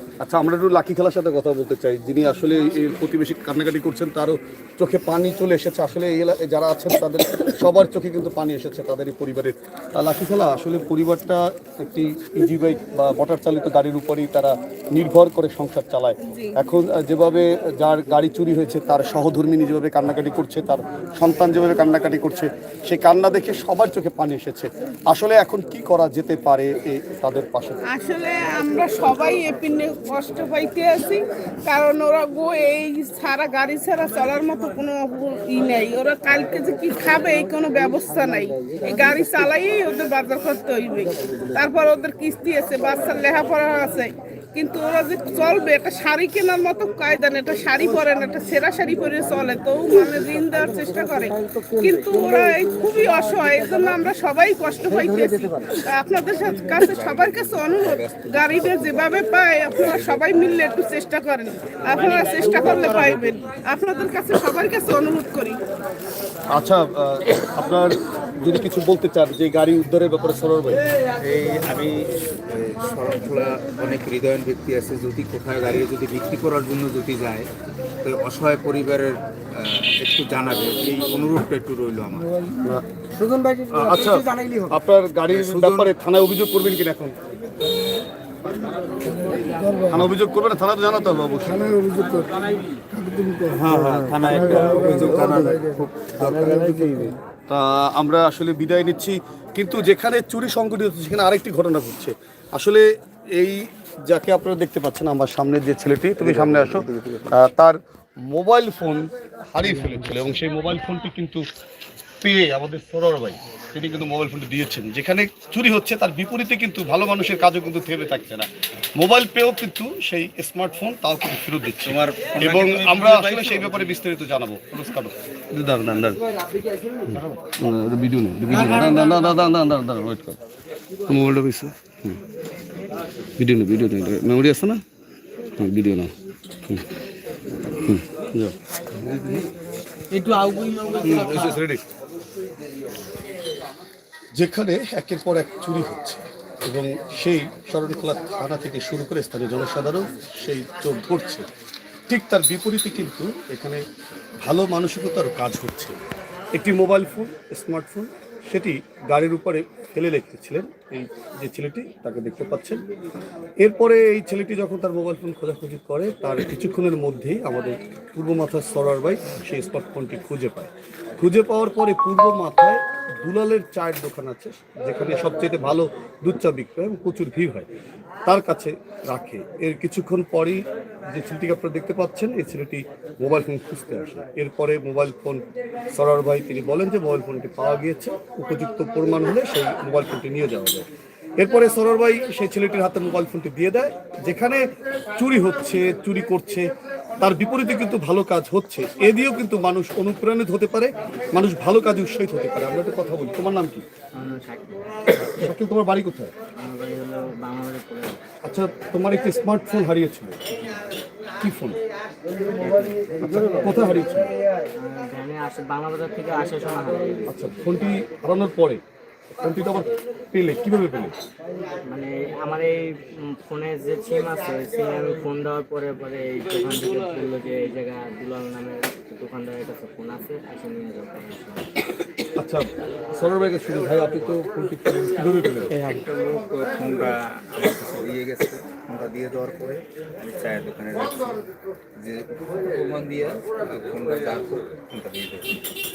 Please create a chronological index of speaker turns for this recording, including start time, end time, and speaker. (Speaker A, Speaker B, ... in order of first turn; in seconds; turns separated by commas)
Speaker A: 0.2-27.8, Speaker B: 16.3-16.6, Speaker B: 27.9-65.6, Speaker C: 56.8-59.2, Speaker C: 59.7-60.6, Speaker C: 62.0-63.0, Speaker A: 66.5-70.8, Speaker C: 71.2-77.5, Speaker C: 78.0-82.3, Speaker D: 82.1-82.6, Speaker A: 83.7-87.1, Speaker C: 85.3-85.9, Speaker D: 89.0-90.1, Speaker A: 89.9-91.8, Speaker D: 91.4-97.1, Speaker C: 93.5-96.9, Speaker A: 94.1-95.0, Speaker A: 97.5-102.8, Speaker A: 103.3-111.4, Speaker C: 106.2-107.2, Speaker A: 112.2-126.2, Speaker C: 121.8-124.0, Speaker A: 127.1-130.4, Speaker C: 128.5-129.0, Speaker A: 131.1-132.2, Speaker A: 133.4-134.8, Speaker A: 135.6-136.1, Speaker A: 137.8-139.5, Speaker A: 141.0-141.9, Speaker A: 144.3-151.4, Speaker A: 152.1-153.8, Speaker A: 154.4-156.0, Speaker A: 156.5-162.8, Speaker A: 163.6-177.7, Speaker A: 178.3-185.4, Speaker A: 185.9-190.8, Speaker A: 191.4-194.6, Speaker A: 195.2-196.7, Speaker A: 197.2-203.8, Speaker E: 204.1-205.5, Speaker A: 205.4-206.3, Speaker E: 206.6-208.2, Speaker A: 208.4-210.4, Speaker A: 211.4-211.8, Speaker E: 212.6-213.9, Speaker A: 213.2-214.3, Speaker E: 214.8-217.3, Speaker A: 217.3-218.8, Speaker A: 219.3-221.1, Speaker E: 221.9-231.7, Speaker A: 232.4-235.7, Speaker C: 235.7-241.4, Speaker C: 242.0-245.5